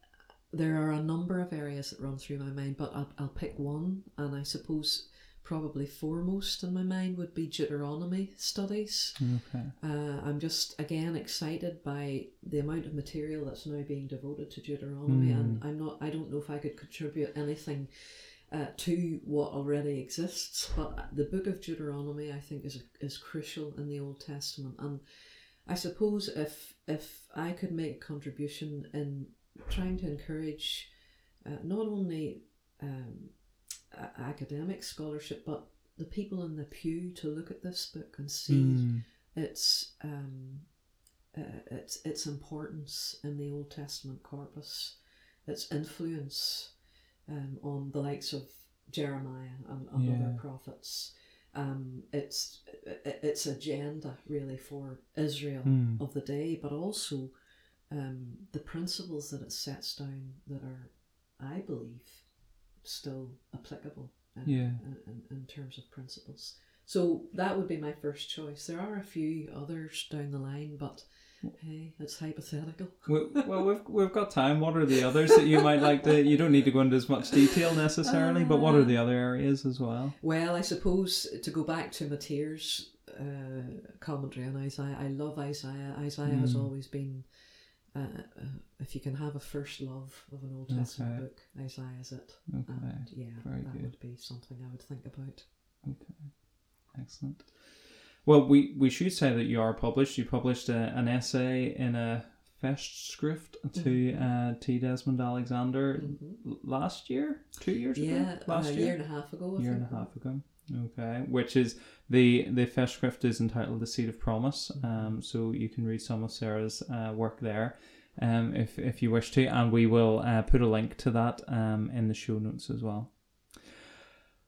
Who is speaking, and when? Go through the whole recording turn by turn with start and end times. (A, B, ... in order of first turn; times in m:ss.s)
0:00.5-0:09.2 A
0:09.2-0:09.7 B
0:09.8-0:30.9 A
0:15.1-0:15.6 B
0:31.4-0:33.4 A
0:33.9-0:40.7 A
0:38.5-0:39.0 B
0:41.3-0:46.7 A
0:47.3-0:57.3 A
0:49.9-0:50.4 B
0:55.6-0:56.0 B
0:57.9-1:02.3 A
1:02.8-1:13.5 A
1:04.4-1:04.8 B
1:13.0-1:20.2 B
1:18.0-1:19.0 A
1:20.2-1:35.5 A
1:26.2-1:26.7 B
1:30.7-1:31.2 B
1:32.5-1:33.9 B
1:35.8-2:03.7 B
1:43.7-1:44.3 A
1:46.0-1:46.4 A
1:47.9-1:50.1 A
1:54.7-1:55.2 A